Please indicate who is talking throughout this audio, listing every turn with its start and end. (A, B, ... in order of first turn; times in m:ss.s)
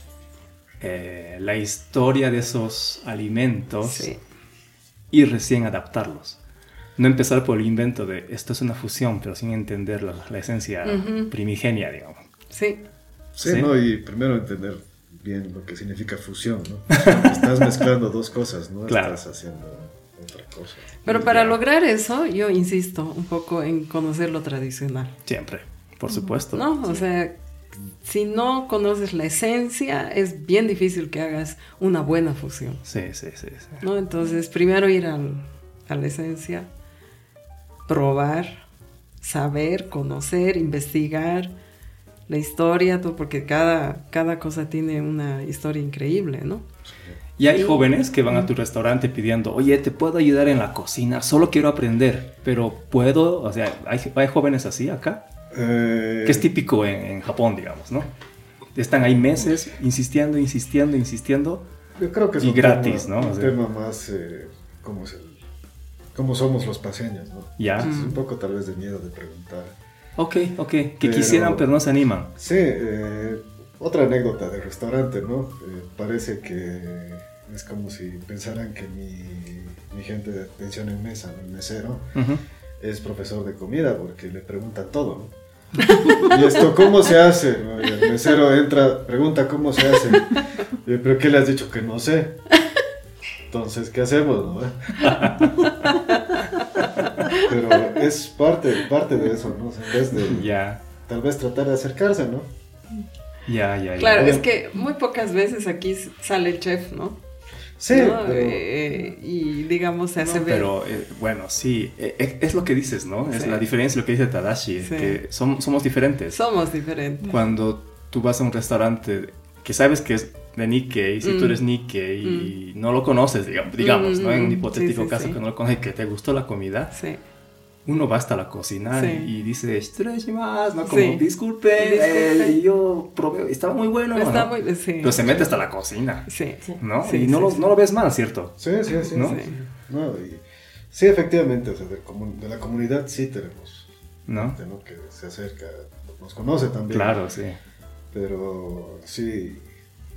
0:00.8-0:04.1 A
0:03.8-0:04.2 B
0:05.1-0:06.4 A
0:07.0-0:12.2 A
0:10.8-0:11.3 B
0:12.5-0:12.8 B
0:13.3-0:21.5 C
0:13.4-0:13.7 A
0:16.9-0:17.6 A
0:18.9-0:19.2 A
0:21.0-0:25.1 B
0:21.1-0:21.5 A
0:25.2-0:26.7 A
0:26.5-0:27.3 B
0:28.0-0:32.8 B
0:32.8-0:33.8 A
0:33.8-0:36.7 B
0:37.9-0:38.6 B
0:39.2-0:41.5 B
0:42.3-0:46.6 B
0:46.9-0:47.2 C
0:47.4-0:55.2 A
0:55.5-0:56.5 C
0:56.2-0:58.1 A
0:58.7-1:01.6 A
1:02.0-1:05.4 C
1:02.4-1:03.6 A
1:06.1-1:09.8 C
1:07.6-1:08.0 A
1:07.8-1:08.2 B
1:10.2-1:12.3 A
1:11.0-1:11.7 C
1:12.3-1:22.1 C
1:22.1-1:22.4 A
1:22.8-1:25.3 C
1:26.1-1:32.4 C
1:33.5-1:35.3 C
1:35.0-1:35.6 A
1:35.6-1:36.4 B
1:37.2-1:37.5 B
1:37.3-1:40.5 C
1:40.2-1:40.8 A
1:41.0-1:42.5 C
1:43.4-1:44.4 A
1:44.0-1:47.2 B
1:47.8-1:48.6 C
1:47.9-1:50.7 B
1:50.2-1:56.4 A
1:53.3-1:53.6 B
1:54.8-1:55.2 B
1:56.3-1:57.4 B
1:57.2-2:06.9 A
2:01.2-2:01.6 B
2:02.2-2:02.5 B
2:03.8-2:05.4 B
2:06.9-2:07.2 B
2:07.8-2:16.3 A
2:08.9-2:09.3 B
2:10.8-2:11.2 B
2:11.8-2:12.6 B
2:14.1-2:15.5 B
2:16.2-2:17.7 B
2:16.8-2:18.6 A
2:18.6-2:27.2 C
2:19.1-2:19.4 A
2:19.1-2:19.5 B
2:24.3-2:24.6 A
2:26.9-2:27.6 A
2:28.1-2:29.7 C